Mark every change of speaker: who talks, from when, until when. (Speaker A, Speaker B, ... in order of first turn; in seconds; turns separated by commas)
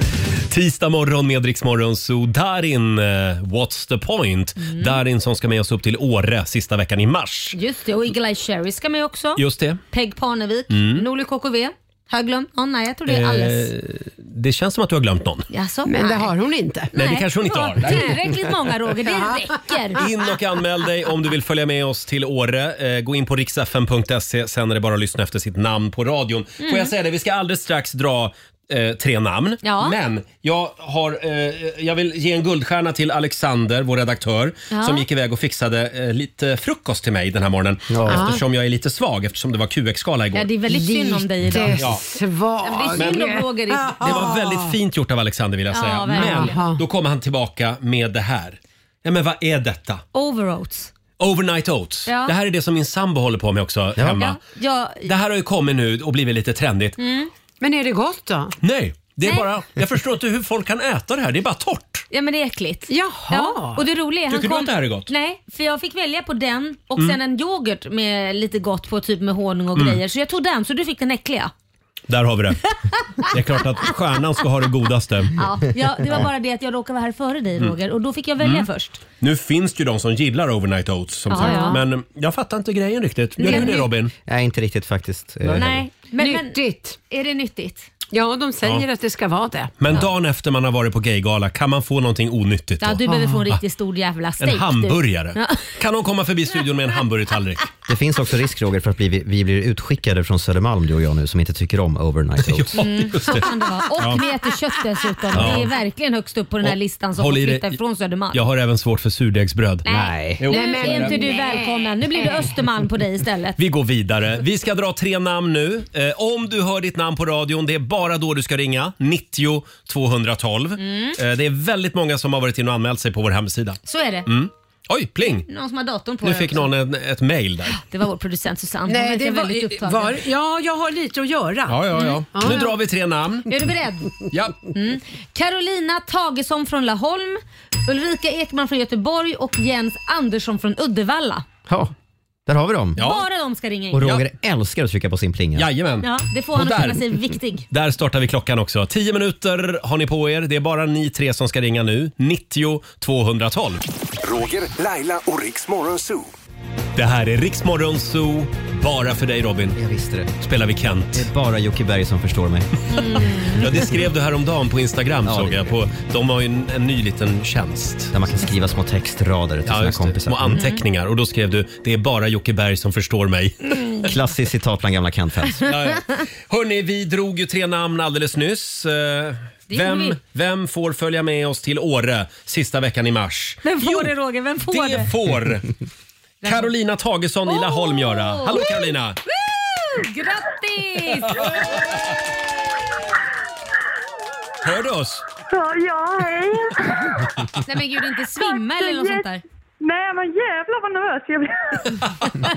Speaker A: 0.5-7.6, Speaker B: 4.6-5.0, Speaker B: 7.5-13.7, Speaker A: 9.4-9.8, Speaker A: 10.7-11.1, Speaker A: 13.1-15.5, Speaker B: 15.5-16.3, Speaker C: 15.9-16.9, Speaker B: 16.9-20.1, Speaker A: 16.9-18.2, Speaker C: 19.0-19.6, Speaker A: 20.0-40.5, Speaker B: 26.6-26.9, Speaker B: 29.6-30.0, Speaker B: 34.7-35.0, Speaker D: 37.9-38.3, Speaker C: 38.1-38.4, Speaker B: 40.3-41.8, Speaker C: 40.7-44.7, Speaker A: 41.8-42.0, Speaker B: 42.6-44.4, Speaker A: 43.0-43.3, Speaker A: 44.0-50.0, Speaker B: 45.7-46.6, Speaker C: 46.1-46.8, Speaker B: 50.1-50.9, Speaker A: 51.2-54.4, Speaker B: 52.1-52.3, Speaker B: 54.1-55.1, Speaker A: 55.0-57.0, Speaker B: 57.0-57.3, Speaker C: 57.6-58.6, Speaker A: 58.6-62.1, Speaker B: 62.1-71.5, Speaker C: 62.9-63.9, Speaker A: 64.3-65.1, Speaker A: 72.1-72.6, Speaker B: 72.9-73.9, Speaker A: 73.2-75.4, Speaker B: 75.3-79.0, Speaker A: 78.4-78.7, Speaker A: 79.2-84.1, Speaker B: 81.3-81.8, Speaker C: 81.4-81.8, Speaker B: 83.4-83.9, Speaker D: 84.3-85.9, Speaker B: 85.5-87.9, Speaker C: 86.2-87.0, Speaker C: 88.1-89.7, Speaker A: 89.8-93.6, Speaker B: 92.8-95.7, Speaker C: 93.1-93.4, Speaker A: 94.4-97.7, Speaker D: 97.9-102.8, Speaker A: 102.4-104.2, Speaker B: 102.8-108.4, Speaker D: 105.3-105.6, Speaker A: 105.3-105.8, Speaker A: 106.6-107.8, Speaker A: 108.3-109.8, Speaker B: 109.8-113.6, Speaker D: 109.9-110.5, Speaker A: 110.4-111.2, Speaker C: 110.5-112.6, Speaker A: 113.6-125.5, Speaker B: 120.8-121.2, Speaker B: 123.9-124.3, Speaker B: 125.2-126.7, Speaker A: 126.2-127.8, Speaker B: 127.7-130.2, Speaker C: 128.9-132.7, Speaker A: 131.7-133.5, Speaker B: 131.9-132.7, Speaker B: 133.5-134.1, Speaker B: 134.7-141.4, Speaker D: 141.7-141.9, Speaker D: 142.5-143.0, Speaker B: 143.0-144.1, Speaker A: 143.0-143.3, Speaker D: 143.9-145.7, Speaker A: 145.6-147.1, Speaker B: 146.0-147.7, Speaker A: 147.7-153.8, Speaker E: 154.2-156.3, Speaker A: 157.0-159.8, Speaker D: 159.8-160.4, Speaker A: 160.4-161.3, Speaker D: 161.1-162.7, Speaker B: 162.9-163.7, Speaker A: 163.3-168.2, Speaker D: 165.2-165.8, Speaker D: 168.1-170.6, Speaker A: 169.7-174.1, Speaker B: 170.5-170.8, Speaker D: 174.1-175.7, Speaker A: 175.6-184.1, Speaker B: 179.7-180.2, Speaker B: 183.6-185.1, Speaker A: 184.7-185.8, Speaker B: 186.4-186.7, Speaker A: 186.4-189.2, Speaker B: 187.5-191.7, Speaker A: 194.6-195.2, Speaker F: 195.5-197.2, Speaker B: 197.6-199.4, Speaker F: 198.8-199.3, Speaker F: 199.8-202.0